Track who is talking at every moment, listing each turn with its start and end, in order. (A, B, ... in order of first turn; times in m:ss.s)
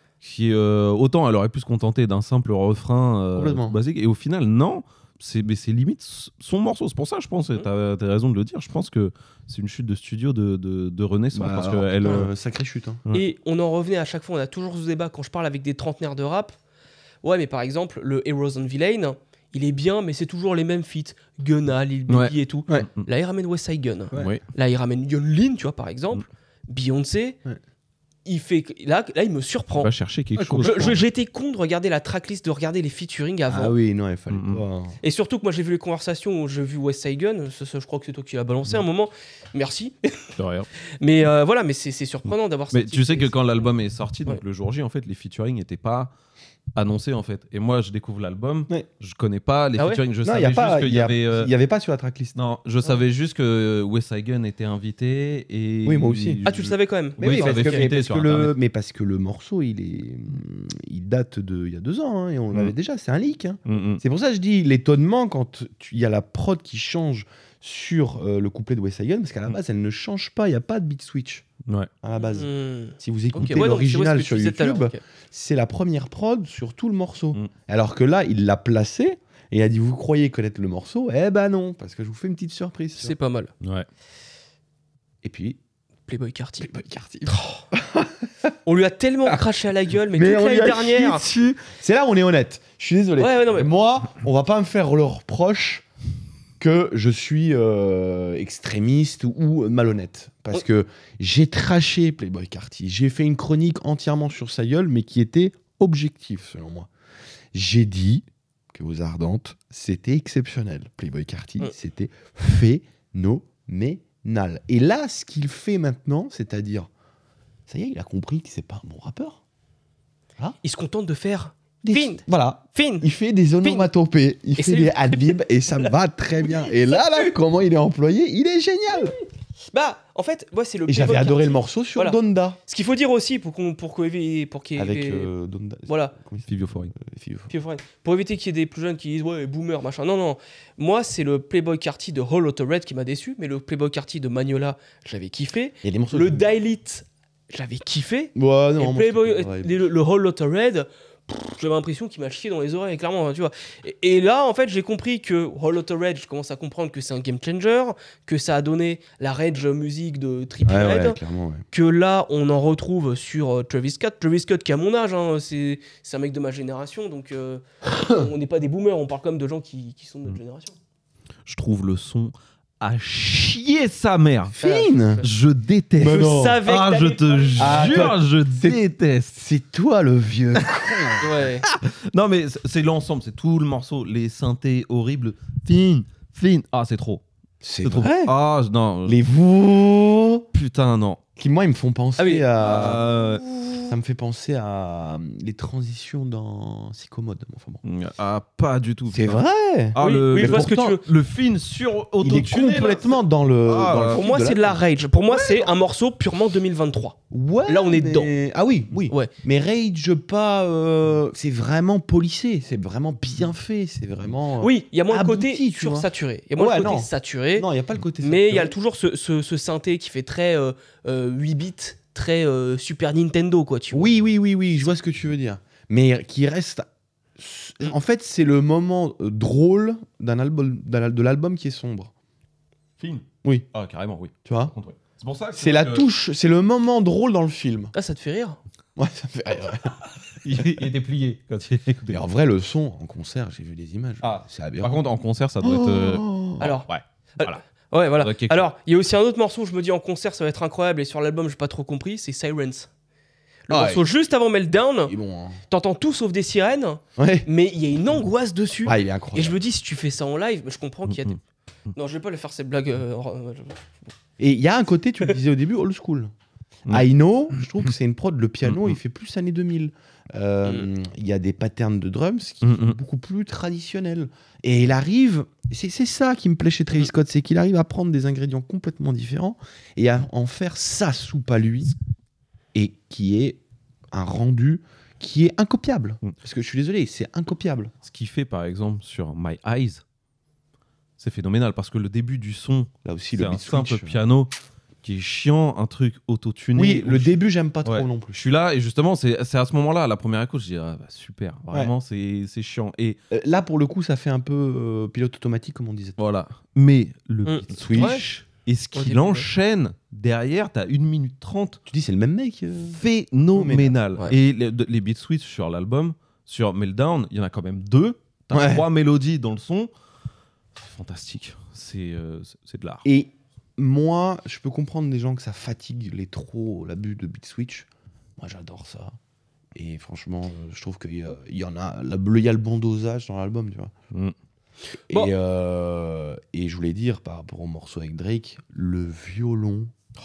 0:00.2-0:12.3 A
0:03.4-0:03.8 B
0:11.3-0:13.0 B
0:13.1-0:16.5 C
0:17.2-0:27.4 C
0:22.1-0:23.1 A
0:24.1-0:24.4 A
0:28.3-0:29.9 C
0:29.8-0:31.0 A
0:30.4-0:31.0 B
0:30.6-0:33.8 C
0:33.5-0:35.0 B
0:34.3-0:34.6 A
0:35.0-0:40.4 C
0:40.4-0:40.7 A
0:41.0-0:43.7 C
0:42.7-0:46.1 A
0:46.8-0:51.5 A
0:50.2-0:52.4 B
0:52.4-0:58.6 A
0:55.8-0:56.4 B
0:56.4-0:57.9 C
0:57.2-1:11.5 B
1:03.7-1:04.0 A
1:12.0-1:23.2 B
1:12.2-1:15.0 C
1:23.0-1:23.5 C
1:23.6-1:23.9 A
1:25.2-1:25.6 B
1:26.1-1:26.7 C
1:26.6-1:28.5 B
1:27.3-1:27.6 C
1:28.7-1:31.2 C
1:30.1-1:35.9 B
1:33.2-1:33.7 C
1:36.6-1:46.9 B
1:47.5-1:56.9 B
1:57.7-1:59.4 B
2:00.6-2:02.2 C
2:01.8-2:09.2 B
2:02.7-2:03.1 C
2:03.6-2:03.9 C
2:04.6-2:05.9 C
2:06.4-2:07.3 C
2:09.7-2:15.3 C
2:10.9-2:12.6 B
2:14.8-2:17.5 B
2:15.9-2:16.1 C
2:16.5-2:16.9 A
2:17.5-2:41.2 C
2:25.8-2:26.4 B
2:28.4-2:29.8 B
2:40.6-2:41.6 B
2:41.7-2:50.8 C
2:47.8-2:48.3 B
2:51.5-2:54.5 A
2:54.5-2:55.2 B
2:54.6-2:55.3 C
2:55.2-2:59.4 A
2:56.0-2:56.6 B
2:56.0-2:58.1 C
2:57.6-2:58.8 B
2:59.3-3:01.4 B
3:00.6-3:07.2 A
3:01.2-3:01.6 C
3:07.6-3:08.4 B
3:07.8-3:09.2 A
3:09.1-3:10.5 B
3:10.5-3:11.2 A
3:11.4-3:13.0 B
3:12.2-3:12.5 C
3:12.6-3:13.4 A
3:13.5-3:13.8 C
3:13.9-3:17.8 B
3:17.8-3:19.4 A
3:19.1-3:21.0 B
3:20.0-3:24.2 A
3:20.0-3:21.0 C
3:22.2-3:24.8 B
3:24.1-3:28.3 C
3:25.3-3:25.7 B
3:27.3-3:38.8 B
3:34.6-3:37.7 C
3:38.2-3:44.1 C
3:43.9-3:46.9 B
3:47.4-3:52.1 B
3:53.0-3:56.1 A
3:54.5-3:54.7 B
3:55.6-3:57.9 B
3:58.0-3:58.6 C
3:59.0-4:00.0 B
4:00.3-4:02.2 A
4:02.1-4:05.0 B
4:04.2-4:07.6 A
4:05.6-4:06.7 B
4:06.6-4:06.9 C
4:07.4-4:12.9 C
4:08.2-4:08.7 A
4:13.7-4:15.2 C
4:13.7-4:14.1 B
4:15.1-4:15.6 B
4:15.7-4:21.4 C
4:17.2-4:17.5 B
4:18.8-4:19.6 B
4:21.1-4:21.3 A
4:22.0-4:24.0 C
4:24.4-4:26.3 B
4:26.9-4:42.0 B
4:27.6-4:27.9 A
4:28.6-4:29.0 A
4:32.6-4:33.0 A
4:42.7-4:43.6 B
4:44.1-4:47.9 B
4:48.0-4:50.0 A
4:51.2-4:54.5 A
4:53.0-4:54.2 B
4:55.0-5:03.2 A
4:56.8-4:58.4 B
5:03.3-5:06.2 B
5:06.2-5:11.8 A
5:07.5-5:08.2 C
5:07.8-5:08.2 B
5:08.9-5:09.5 C
5:11.9-5:13.0 B
5:12.9-5:19.9 A
5:13.6-5:14.0 B
5:18.5-5:18.8 B
5:20.8-5:23.0 A
5:23.0-5:29.2 B
5:29.8-5:33.9 B
5:35.1-5:39.9 B